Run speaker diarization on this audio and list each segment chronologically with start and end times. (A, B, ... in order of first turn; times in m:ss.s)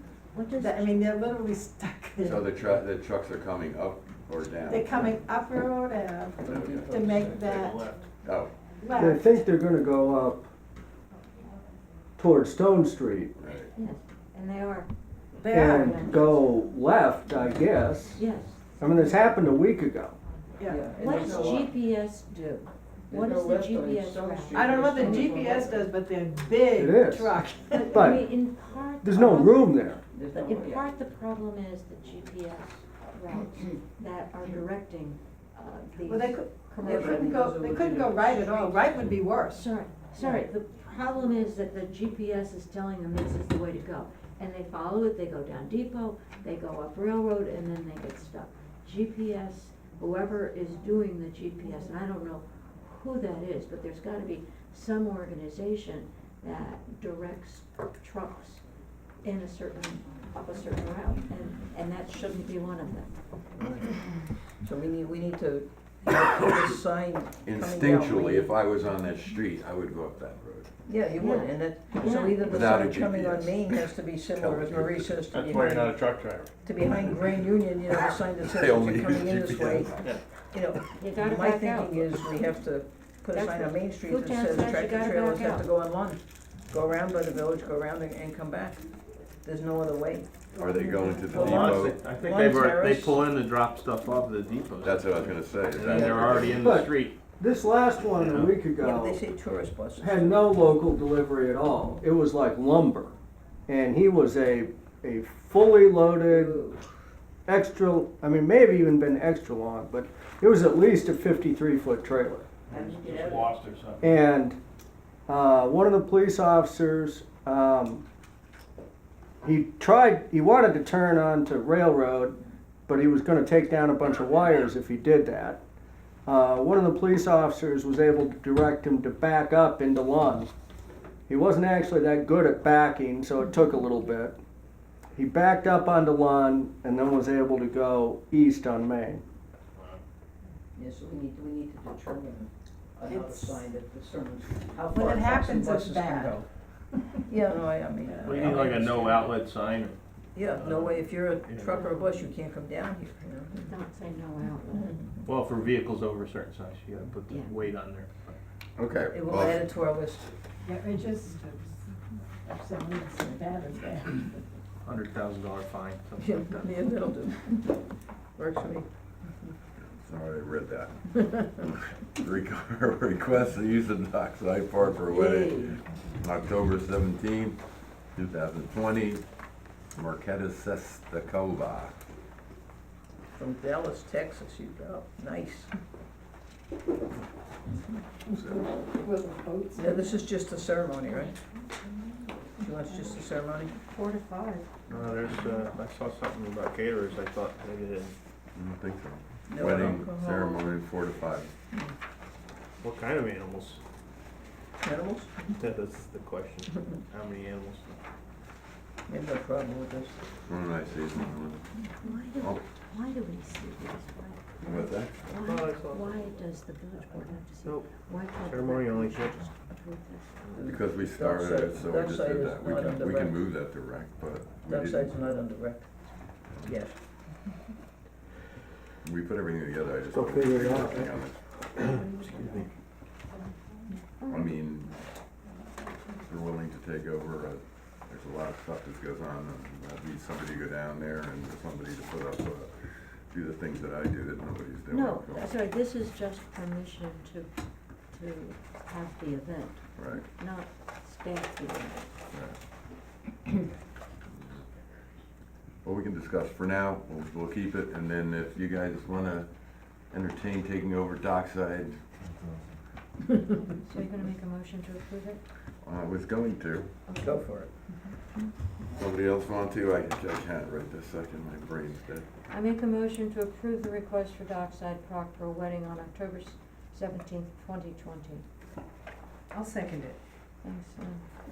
0:00.3-0:01.1 A
0:00.5-0:02.5 B
0:02.2-0:05.1 C
0:04.7-0:07.9 B
0:06.4-0:07.5 D
0:06.4-0:07.3 C
0:07.2-0:08.0 E
0:08.2-0:08.5 C
0:08.8-0:09.3 B
0:09.0-0:10.5 F
0:12.2-0:13.3 F
0:13.4-0:13.7 C
0:13.7-0:14.9 A
0:15.4-0:16.2 B
0:15.4-0:16.5 A
0:15.5-0:18.2 F
0:18.1-0:18.7 A
0:18.8-0:20.2 F
0:20.6-0:20.8 B
0:20.6-0:21.8 D
0:21.0-0:25.4 A
0:23.1-0:25.9 D
0:24.5-0:28.0 B
0:26.8-0:27.3 F
0:27.7-0:37.5 A
0:27.9-0:28.3 F
0:29.0-0:30.0 F
0:30.1-0:30.8 D
0:36.0-0:39.6 B
0:36.8-0:39.1 D
0:39.5-0:58.6 A
0:40.2-0:40.4 B
0:59.2-1:03.1 A
1:03.6-1:03.9 D
1:04.6-1:08.5 D
1:07.4-1:10.7 C
1:10.8-1:16.0 D
1:11.1-1:12.6 A
1:12.0-1:12.3 E
1:12.3-1:15.1 C
1:15.3-1:17.2 E
1:16.6-1:19.9 D
1:18.2-1:20.1 C
1:20.5-1:28.8 D
1:21.0-1:22.4 A
1:23.3-1:25.6 A
1:29.4-1:30.3 D
1:30.5-1:32.0 C
1:31.3-1:37.2 E
1:31.3-1:33.2 D
1:34.8-1:36.7 C
1:35.8-1:36.4 D
1:36.5-1:39.2 F
1:38.1-1:38.5 E
1:38.7-1:40.6 D
1:40.0-1:43.1 F
1:43.7-1:46.6 F
1:46.3-1:46.8 D
1:47.4-1:52.4 F
1:52.7-1:53.5 D
1:52.7-1:54.1 E
1:54.0-1:54.6 F
1:55.3-1:58.0 F
1:59.4-2:05.6 F
2:06.2-2:10.5 F
2:11.3-2:14.4 F
2:15.1-2:19.2 F
2:19.8-2:20.0 E
2:20.8-2:26.4 D
2:23.1-2:23.6 B
2:24.9-2:27.2 B
2:27.3-2:29.3 D
2:28.0-2:28.4 B
2:28.2-2:31.9 E
2:30.3-2:33.7 D
2:33.6-2:35.0 A
2:34.7-2:35.2 D
2:35.2-2:38.4 E
2:38.8-2:39.6 C
2:39.1-2:40.3 D
2:40.6-2:41.9 B
2:42.4-2:44.4 B
2:44.8-2:46.4 E
2:46.2-2:48.8 D
2:49.8-2:51.1 C
2:51.6-2:57.6 C
2:54.9-2:55.8 D
2:58.1-2:59.2 C
2:59.9-3:02.0 C
3:03.4-3:05.7 D
3:08.3-3:10.2 B
3:08.4-3:08.6 C
3:09.8-3:11.4 D
3:12.6-3:13.7 D
3:13.8-3:14.6 B
3:14.9-3:18.1 E
3:18.5-3:21.5 C
3:19.5-3:20.6 D
3:22.8-3:23.8 E
3:24.8-3:25.4 D
3:25.5-3:28.0 E
3:29.1-3:30.2 D
3:30.5-3:31.6 C
3:32.0-3:40.3 A
3:34.6-3:35.2 C
3:35.4-3:36.3 E
3:38.4-3:39.4 E
3:40.6-3:43.5 D
3:40.6-3:45.0 C
3:44.6-3:45.9 D
3:46.6-3:46.9 D
3:49.0-3:51.4 C
3:50.1-3:51.1 F
3:52.0-3:52.6 A
3:54.2-3:54.5 A
3:54.3-3:55.0 C
3:56.2-4:05.5 C
4:04.9-4:07.5 A
4:08.1-4:12.1 A
4:10.0-4:10.2 C
4:14.3-4:14.6 C
4:15.8-4:19.5 C
4:20.1-4:22.0 C
4:23.8-4:25.4 A
4:25.8-4:26.9 C
4:27.1-4:27.4 A
4:27.2-4:27.7 D
4:28.9-4:32.2 C
4:32.5-4:38.4 A
4:39.5-4:40.2 B
4:40.6-4:41.2 A